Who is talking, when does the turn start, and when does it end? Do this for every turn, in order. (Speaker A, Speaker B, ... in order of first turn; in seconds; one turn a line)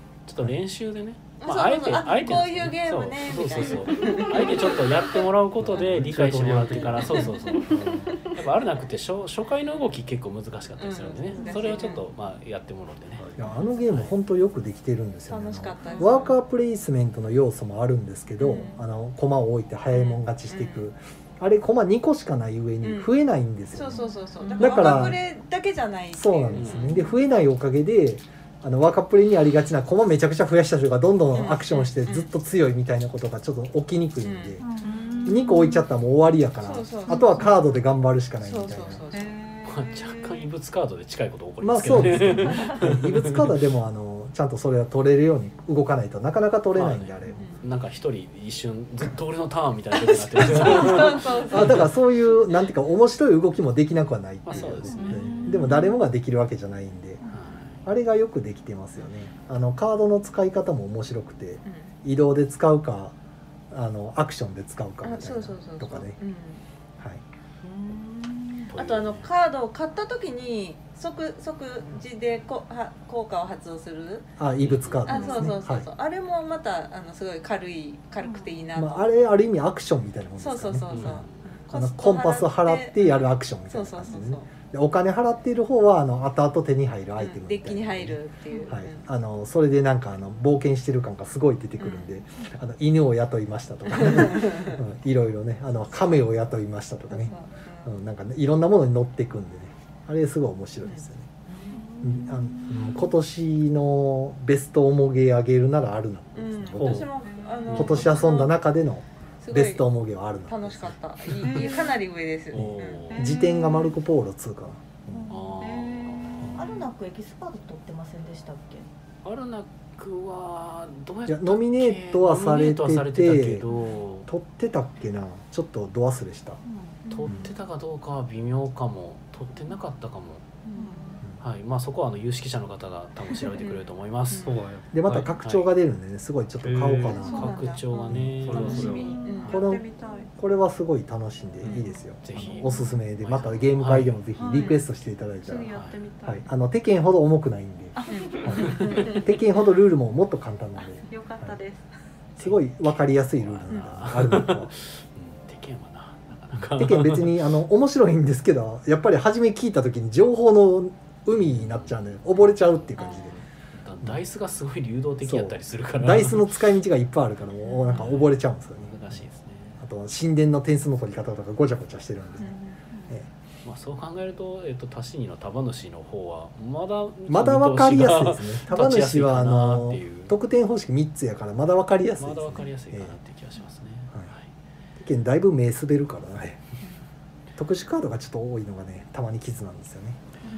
Speaker A: 0.3-13.2
Speaker B: 1.4-5.2
Speaker C: 5.6-8.1
Speaker B: 7.0-7.3
Speaker B: 10.8-12.1
Speaker C: 13.2-13.5
Speaker D: 13.4-24.0
Speaker A: 13.9-14.1
Speaker B: 15.3-16.4
Speaker E: 15.8-16.3
Speaker B: 18.4-18.8
Speaker B: 19.9-20.9
Speaker B: 22.8-23.1
Speaker B: 23.7-27.1
Speaker E: 23.9-25.1
Speaker D: 24.6-25.2
Speaker D: 26.1-34.6
Speaker A: 26.5-26.9
Speaker B: 31.3-32.3
Speaker B: 34.2-34.7
Speaker F: 34.6-35.2
Speaker E: 34.8-35.8
Speaker D: 35.2-39.0
Speaker B: 35.2-35.7
Speaker B: 36.6-37.6
Speaker E: 37.1-37.5
Speaker B: 38.4-39.4
Speaker E: 39.1-40.5
Speaker A: 39.6-43.5
Speaker D: 41.6-47.5
Speaker A: 46.7-51.8
Speaker B: 47.3-47.6
Speaker B: 50.1-51.9
Speaker D: 50.5-57.2
Speaker A: 54.4-55.6
Speaker B: 54.5-55.7
Speaker E: 54.9-55.9
Speaker A: 57.2-57.8
Speaker D: 57.8-63.1
Speaker B: 61.6-61.9
Speaker D: 63.7-66.2
Speaker B: 65.0-66.6
Speaker B: 68.7-74.3
Speaker A: 68.7-69.3
Speaker D: 74.4-75.9
Speaker A: 74.6-75.5
Speaker B: 75.0-79.1
Speaker D: 78.7-81.2
Speaker B: 80.4-84.5
Speaker A: 80.9-81.3
Speaker D: 81.7-101.3
Speaker B: 87.2-89.1
Speaker B: 91.8-92.2
Speaker B: 93.9-94.8
Speaker B: 97.1-97.9
Speaker E: 101.6-103.1
Speaker D: 102.0-107.1
Speaker B: 106.3-108.5
Speaker C: 106.8-107.1
Speaker E: 107.2-107.8
Speaker D: 107.7-111.0
Speaker C: 107.7-108.0
Speaker B: 109.4-109.8
Speaker B: 110.4-113.2
Speaker E: 111.4-112.0
Speaker A: 112.5-113.2
Speaker D: 112.5-115.3
Speaker E: 113.1-114.0
Speaker A: 115.3-116.7
Speaker E: 115.3-116.4
Speaker D: 116.4-116.7
Speaker F: 116.5-118.8
Speaker A: 119.2-124.3
Speaker D: 121.3-123.6
Speaker D: 124.3-126.6
Speaker F: 126.7-127.0
Speaker B: 127.1-127.5
Speaker A: 127.1-130.4
Speaker B: 130.7-131.2
Speaker A: 131.4-134.5
Speaker B: 133.6-134.5
Speaker C: 134.4-134.9
Speaker D: 134.9-138.4
Speaker A: 135.0-135.7
Speaker C: 136.6-137.3
Speaker B: 137.1-140.2
Speaker A: 137.2-139.6
Speaker E: 137.3-137.8
Speaker C: 138.3-139.2
Speaker E: 138.5-140.3
Speaker F: 139.1-139.4
Speaker D: 139.5-139.8
Speaker D: 140.4-151.6
Speaker A: 141.6-144.2
Speaker E: 142.5-142.9
Speaker E: 144.3-144.8
Speaker B: 144.5-144.8
Speaker E: 145.4-146.4
Speaker A: 145.7-146.0
Speaker E: 147.9-149.2
Speaker B: 148.1-149.3
Speaker E: 151.1-151.8
Speaker A: 152.4-157.4
Speaker D: 152.4-154.7
Speaker D: 156.6-163.3
Speaker A: 161.4-161.9
Speaker A: 163.0-166.5
Speaker D: 165.2-169.0
Speaker A: 167.8-169.8
Speaker D: 169.8-172.5
Speaker B: 172.4-172.8
Speaker A: 173.6-180.3
Speaker D: 177.3-183.2
Speaker A: 182.2-184.5
Speaker D: 185.0-186.6
Speaker D: 187.6-190.2